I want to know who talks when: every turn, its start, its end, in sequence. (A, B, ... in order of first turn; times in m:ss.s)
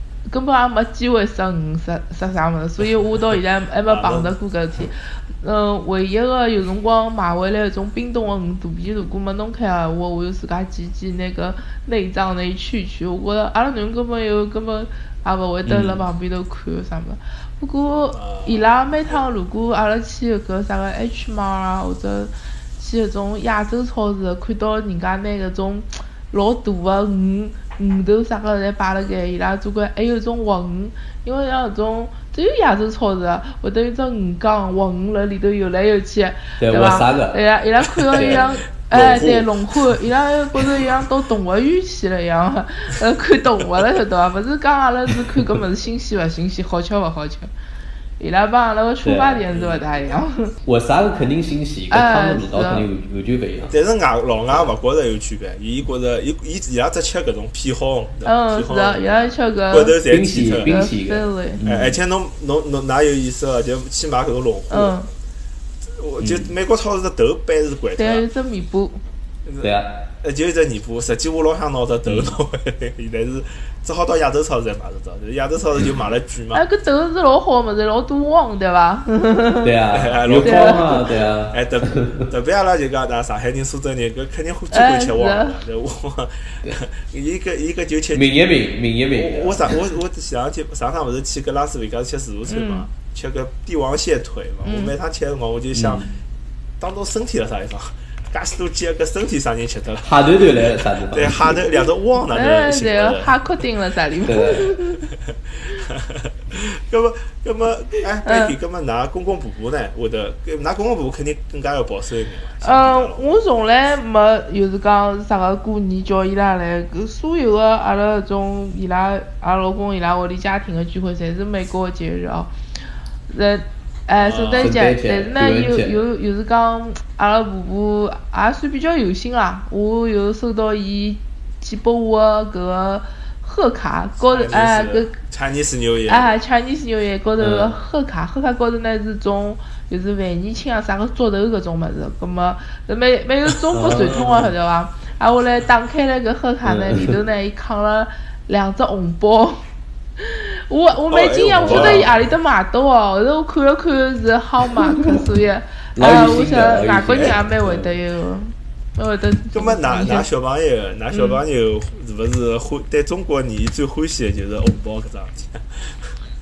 0:00.3-0:47.5 A
0:03.9-0:04.3 B
0:15.7-0:16.0 C
0:18.1-0:19.2 B
0:36.6-0:37.4 C
0:38.1-0:38.6 C
0:38.2-0:40.0 B
0:48.2-0:50.5 A
0:49.0-0:49.5 C
0:49.5-0:49.8 B
0:50.6-0:53.8 C
0:51.9-0:52.9 A
0:53.7-0:59.2 B
0:58.2-1:00.0 A
0:59.7-1:00.7 B
1:00.1-1:02.0 C
1:00.6-1:01.6 A
1:01.6-1:05.0 B
1:04.7-1:05.1 A
1:05.8-1:08.2 B
1:06.2-1:06.5 C
1:08.0-1:09.0 A
1:09.5-1:16.6 B
1:09.6-1:10.0 C
1:12.1-1:12.4 C
1:16.5-1:19.7 A
1:19.6-1:22.3 C
1:19.9-1:21.0 B
1:20.4-1:21.0 A
1:21.5-1:28.4 B
1:24.7-1:25.6 A
1:28.1-1:29.8 C
1:29.1-1:36.1 B
1:32.5-1:32.9 A
1:34.6-1:34.9 A
1:35.8-1:36.1 C
1:36.8-1:43.4 B
1:40.0-1:41.6 C
1:42.3-1:45.0 A
1:44.2-1:44.8 C
1:45.3-1:53.4 B
1:48.2-1:48.5 A
1:52.6-2:02.5 A
2:03.3-2:15.1 A
2:04.2-2:04.8 B
2:04.6-2:06.0 C
2:14.3-2:16.4 B
2:16.1-2:29.6 A
2:17.4-2:17.8 C
2:23.7-2:24.5 C
2:26.6-2:27.2 C
2:30.2-2:40.3 A
2:31.1-2:32.2 B
2:31.6-2:32.1 C
2:34.8-2:35.2 C
2:36.0-2:38.0 C
2:39.5-2:46.0 B
2:41.1-2:41.4 A